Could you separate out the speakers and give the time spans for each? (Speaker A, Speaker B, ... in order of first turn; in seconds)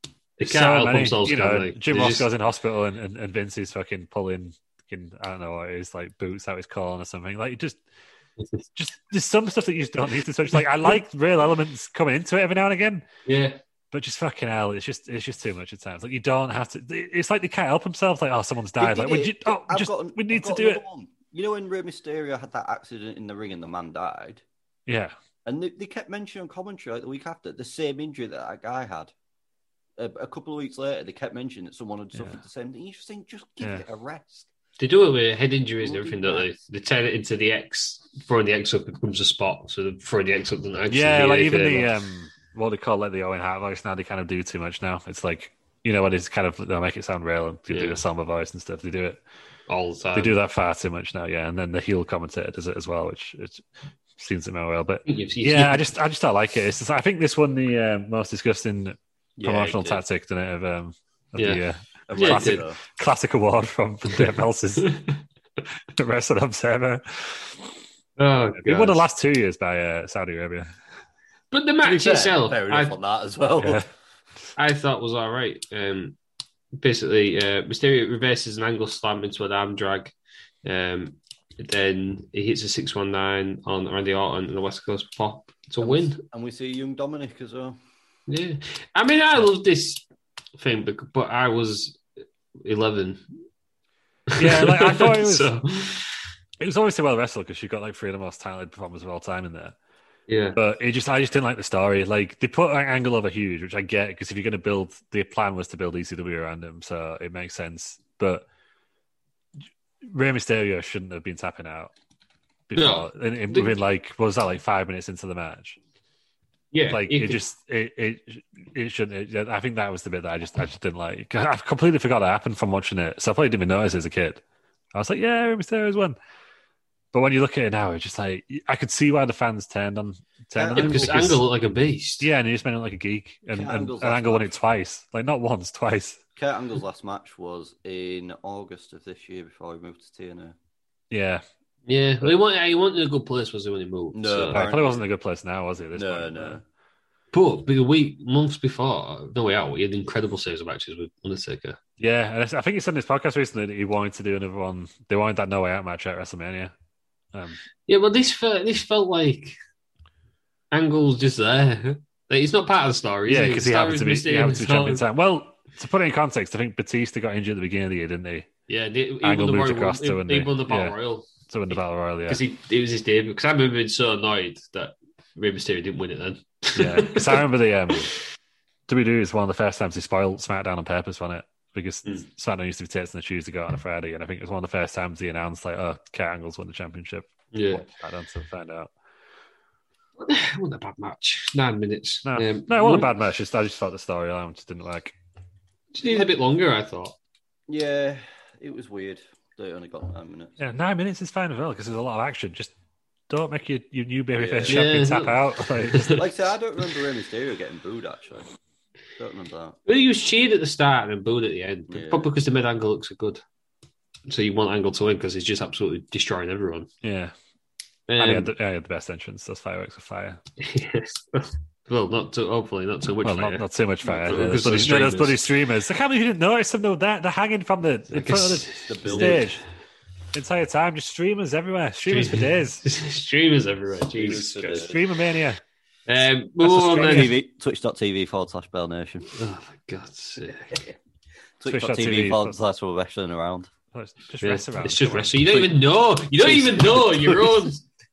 Speaker A: 0.4-2.3, 8.4-8.6, 13.3-13.6, 34.8-41.9, 47.7-48.0, 49.7-50.4, 55.1-55.9, 61.4-61.6, 62.2-62.6, 64.8-65.2, 68.2-69.1, 71.5-73.0, 74.6-76.2, 76.8-80.1, 80.6-86.2, 88.3-90.0, 90.6-92.0, 92.6-93.3, 94.3-96.3, 100.3-100.6, 112.8-113.8, 116.7-117.4, 130.7-132.3, 141.9-144.6, 147.3-151.8, 157.9-159.6, 160.7-165.0, 168.7-177.4, 187.5-187.8, 190.2-193.1, 195.9-197.2, 204.7-206.2, 209.9-213.4, 214.3-216.9, 218.1-218.5, 220.6-225.4, 228.1-229.5, 232.1-234.9, 236.1-237.3, 239.4-240.8, 244.4-247.8
Speaker B: 0.4-7.8, 8.8-13.0, 13.9-20.8, 24.9-25.1, 32.1-32.4, 40.9-49.2, 50.1-53.6, 54.2-64.9, 66.0-67.6, 68.6-70.7, 73.6-73.9, 94.4-95.5, 96.6-99.8, 100.6-108.5, 110.0-111.9, 112.7-115.8, 116.9-124.4, 124.9-126.2, 127.1-131.5, 132.2-136.2, 141.1-141.4, 144.5-146.6, 152.0-156.7, 157.3-157.6, 163.3-168.5, 169.2-172.4, 176.8-178.2, 178.9-188.9, 192.3-195.1, 200.6-202.7, 203.3-206.2, 217.0-217.3, 218.2-220.4, 223.2-229.6, 230.3-232.8, 234.8-235.6, 236.7-237.3, 241.7-242.6, 243.9-245.7
Speaker C: 18.8-24.4, 25.4-29.1, 30.0-34.5, 35.8-36.5, 59.4-60.0, 62.1-62.8, 71.8-73.8, 85.8-87.8, 130.6-131.2, 133.5-134.5, 136.4-140.6, 144.1-145.0, 145.9-146.6, 196.0-196.3, 197.7-200.5, 204.4-204.8, 206.1-208.5, 209.2-209.8, 211.9-212.3, 228.9-229.5, 234.1-235.0, 236.7-239.3, 241.6-243.7, 246.4-246.9